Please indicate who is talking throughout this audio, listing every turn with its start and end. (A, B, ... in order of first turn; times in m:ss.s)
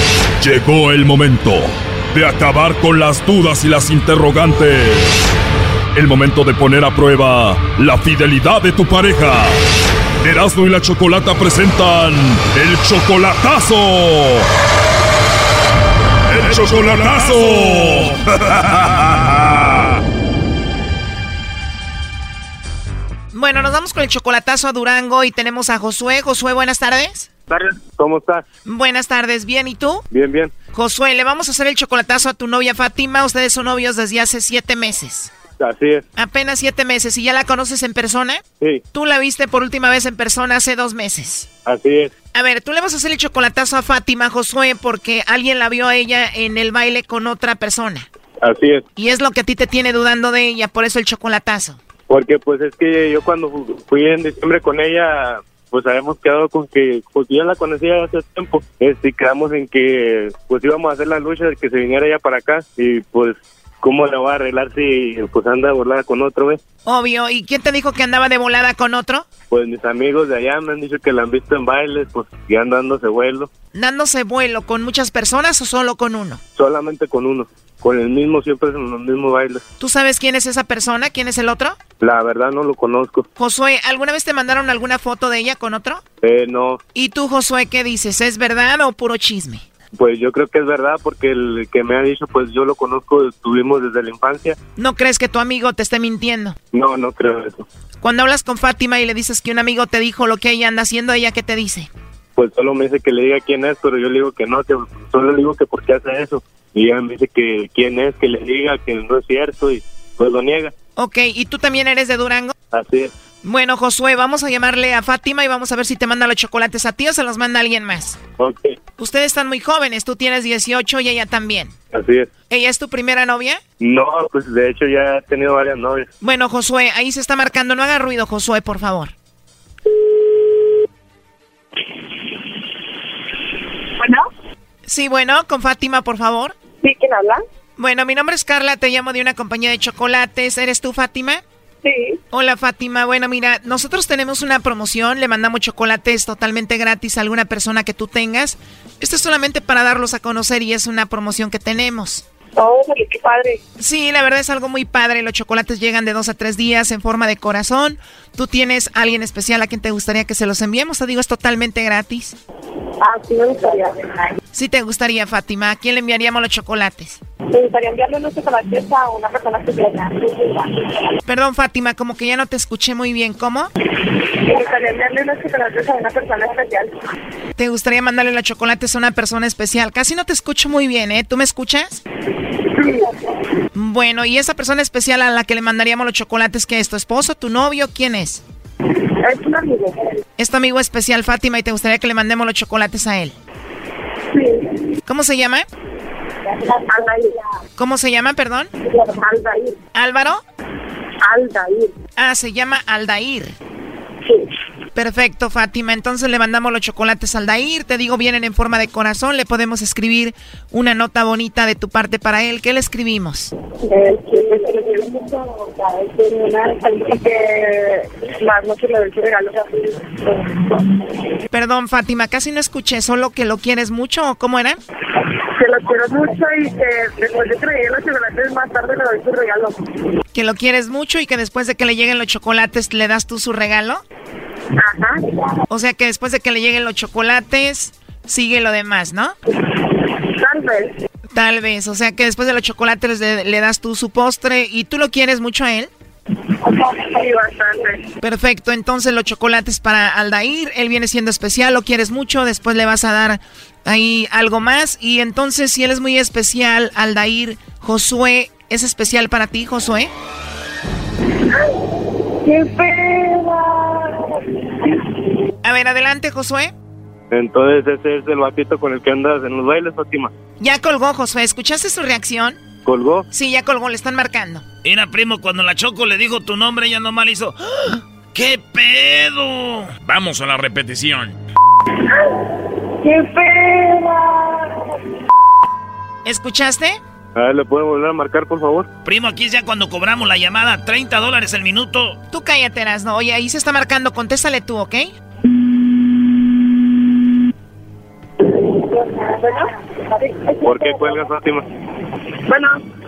0:00.4-0:05.3 A
0:05.9-0:09.6 A
0:10.2-0:14.5 A
0:16.3-0:20.0 A
0:23.3-0:27.3 B
0:27.5-0:28.4 C
0:28.6-0:30.0 B
0:30.1-0:30.5 C
0:30.7-0:35.3 B
0:35.6-0:36.0 C
0:36.2-0:41.5 B
0:41.6-0:42.1 C
0:42.3-0:48.1 B
0:48.4-0:48.8 C
0:49.0-0:51.8 B
0:52.1-1:06.6 C
1:06.8-1:09.2 B
1:09.5-1:13.5 C
1:13.7-1:16.4 B
1:16.6-1:19.6 C
1:19.8-1:21.8 B
1:22.0-1:23.2 C
1:23.4-1:26.0 B
1:26.2-1:26.8 C
1:26.9-1:29.6 B
1:29.9-1:34.6 C
1:34.8-1:36.6 B
1:36.7-1:37.6 C
1:38.0-1:41.9 B
1:42.4-1:50.7 C
1:51.0-1:52.5 B
1:52.7-1:53.1 C
1:53.4-1:58.2 B
1:58.4-1:58.8 C
1:59.0-2:01.7 B
2:01.9-2:02.3 C
2:02.5-2:03.6 B
2:03.8-2:06.1 C
2:06.2-2:09.1 B
2:14.0-2:14.2 D
2:14.8-2:16.5 B
2:16.8-2:17.4 D
2:17.8-2:21.4 B
2:21.8-2:22.2 D
2:22.3-2:32.2 B
2:32.6-2:33.6 D
2:33.8-2:42.4 B
2:43.0-2:44.3 D
2:44.5-2:47.2 B
2:47.5-2:50.9 D
2:51.2-2:53.7 B
2:54.4-2:56.9 D
2:57.6-3:02.0 B
3:03.7-3:08.4 B
3:09.2-3:10.0 D
3:10.4-3:13.4 B
3:14.3-3:14.8 D
3:15.1-3:15.6 B
3:16.7-3:17.4 D
3:17.8-3:18.7 B
3:18.9-3:19.8 D
3:19.9-3:20.4 B
3:21.2-3:21.9 D
3:22.2-3:23.5 B
3:24.9-3:33.5 B
3:33.8-3:40.8 D
3:41.5-3:44.8 B
3:45.5-3:49.8 D
3:50.3-3:54.0 B
3:54.8-3:55.2 D
3:55.7-3:59.3 B
3:59.7-4:01.0 D
4:01.3-4:05.9 B
4:06.5-4:08.1 D
4:08.2-4:20.1 B
4:22.4-4:25.0 D
4:25.6-4:26.7 B
4:27.3-4:30.3 C
4:30.6-4:32.6 B
4:32.8-4:33.3 C
4:33.3-4:34.6 B
4:34.8-4:41.4 E
4:43.0-4:45.0 D
4:46.2-4:47.0 B
4:47.3-4:48.9 C
4:49.0-4:52.2 E
4:52.3-4:55.1 B
4:58.8-5:01.2 D
5:00.6-5:01.6 C
5:02.4-5:02.7 D